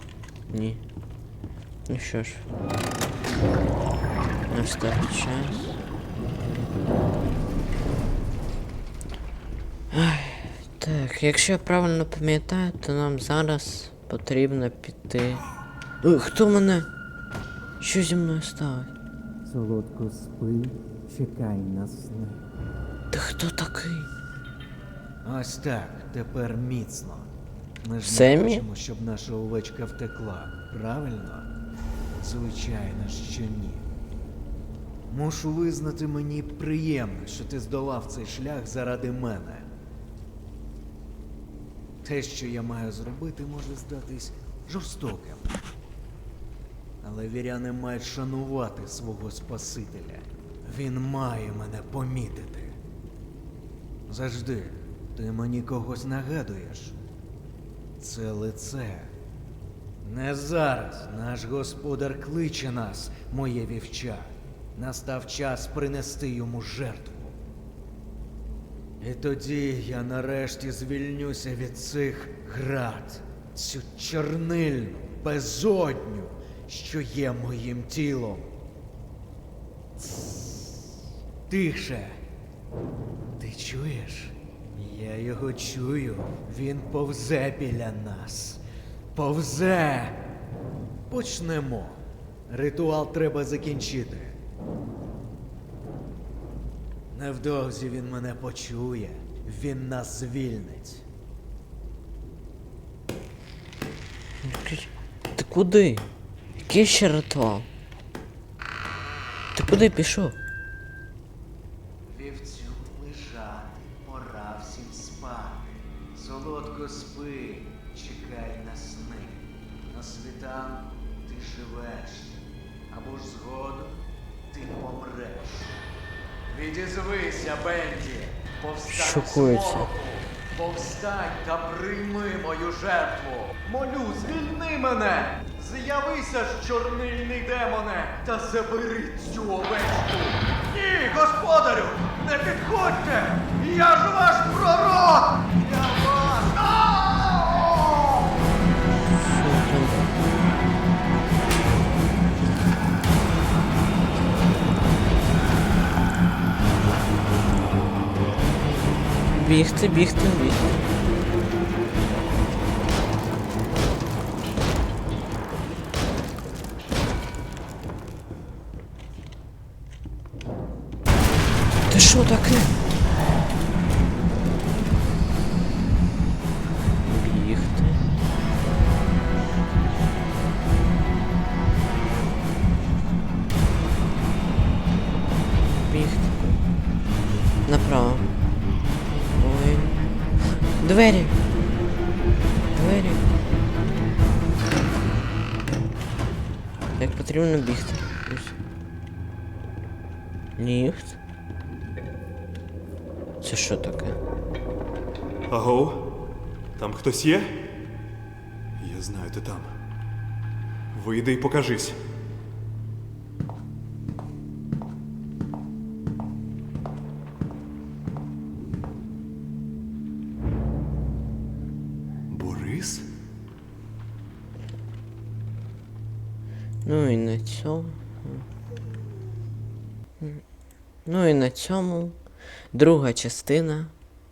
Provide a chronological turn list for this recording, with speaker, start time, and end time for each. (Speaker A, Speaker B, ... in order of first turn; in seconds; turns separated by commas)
Speaker A: 0.5-0.8, Speaker A: 1.9-2.4, Speaker A: 4.5-5.8, Speaker A: 9.9-15.4, Speaker A: 16.0-16.9, Speaker A: 17.8-18.9, Speaker B: 19.4-22.4, Speaker A: 23.1-24.1, Speaker B: 25.2-27.3, Speaker B: 27.8-31.5, Speaker A: 28.0-28.6, Speaker B: 32.2-33.8, Speaker B: 35.1-39.6, Speaker B: 42.0-45.5, Speaker B: 47.0-52.8, Speaker B: 54.1-57.0, Speaker B: 58.0-59.1, Speaker B: 60.0-67.4, Speaker B: 69.0-78.5, Speaker B: 80.0-80.9, Speaker B: 81.5-82.2, Speaker B: 83.4-88.6, Speaker B: 89.1-90.3, Speaker B: 91.1-94.3, Speaker B: 97.1-101.0, Speaker A: 104.4-106.1, Speaker A: 106.7-107.7, Speaker A: 109.5-110.4, Speaker B: 112.1-125.8, Speaker B: 126.5-148.3, Speaker A: 128.9-129.9, Speaker A: 149.1-150.2, Speaker A: 159.3-160.9, Speaker A: 171.9-172.8, Speaker A: 177.0-178.1, Speaker A: 185.7-186.6, Speaker A: 187.7-188.3, Speaker A: 189.3-190.0, Speaker A: 190.8-191.4, Speaker A: 192.7-193.3, Speaker A: 197.0-198.6, Speaker A: 200.6-201.2, Speaker A: 203.4-204.2, Speaker C: 205.5-206.2, Speaker C: 206.8-207.7, Speaker C: 208.8-209.7, Speaker C: 210.9-212.0, Speaker C: 222.3-223.1, Speaker A: 226.8-228.4, Speaker A: 231.1-232.2, Speaker A: 232.7-233.9